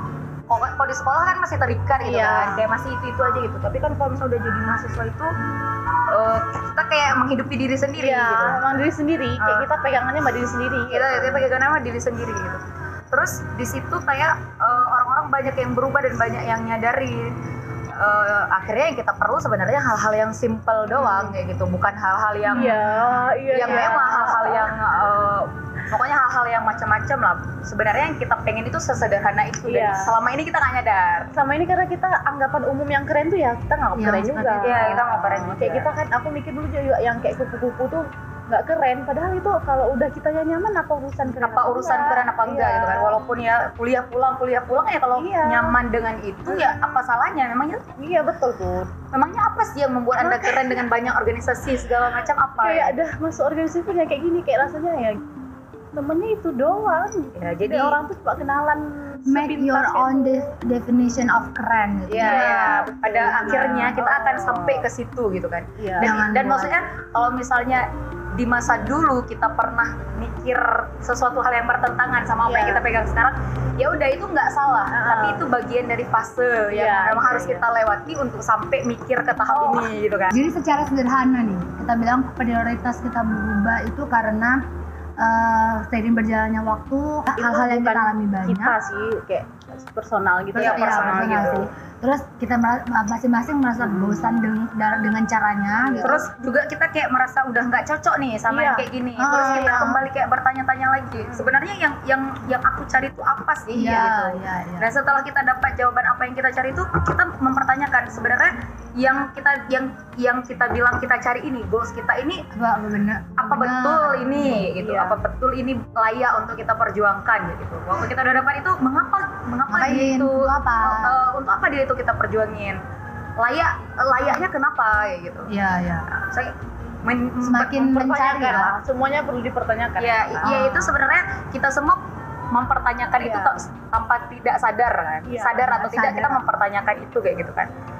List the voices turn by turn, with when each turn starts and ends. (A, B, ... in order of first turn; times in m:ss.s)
0:00.5-0:05.3 A
0:02.0-0:02.6 B
0:06.1-0:08.6 A
0:08.0-0:11.5 B
0:09.4-0:09.7 A
0:10.9-0:17.3 A
0:18.0-0:22.9 A
0:20.9-0:21.4 B
0:22.5-0:23.2 C
0:22.5-0:24.7 B
0:23.5-0:31.3 A
0:29.6-0:30.2 B
0:31.3-0:43.2 B
0:34.0-0:35.0 C
0:34.6-0:35.9 A
0:41.3-0:47.9 A
0:45.1-0:45.8 B
0:46.5-0:46.8 B
0:48.0-0:48.9 B
0:49.1-0:53.0 A
0:50.2-0:50.9 B
0:52.6-0:55.2 B
0:55.9-1:00.5 B
0:57.3-0:58.0 A
0:59.3-1:04.0 C
1:02.1-1:20.3 A
1:02.2-1:04.9 B
1:05.8-1:06.2 B
1:06.0-1:06.7 C
1:12.4-1:12.8 B
1:14.9-1:15.4 B
1:16.7-1:17.7 B
1:19.4-1:19.9 B
1:20.3-1:24.6 C
1:25.2-1:28.7 C
1:27.4-1:31.7 B
1:30.5-1:36.2 C
1:30.6-1:31.7 A
1:33.8-1:34.5 B
1:35.8-1:36.2 B
1:36.0-1:52.4 A
1:38.5-1:40.0 B
1:39.2-1:40.0 C
1:41.2-1:41.6 B
1:43.7-1:44.9 C
1:52.5-1:54.7 C
1:53.4-2:02.8 A
1:54.8-1:55.2 B
1:59.7-2:01.2 C
2:03.4-2:05.5 A
2:05.5-2:06.1 C
2:06.2-2:07.9 A
2:07.4-2:08.8 C
2:07.7-2:10.6 B
2:10.0-2:17.7 A
2:10.4-2:10.9 C
2:13.2-2:13.6 B
2:15.2-2:15.8 B
2:15.7-2:16.4 C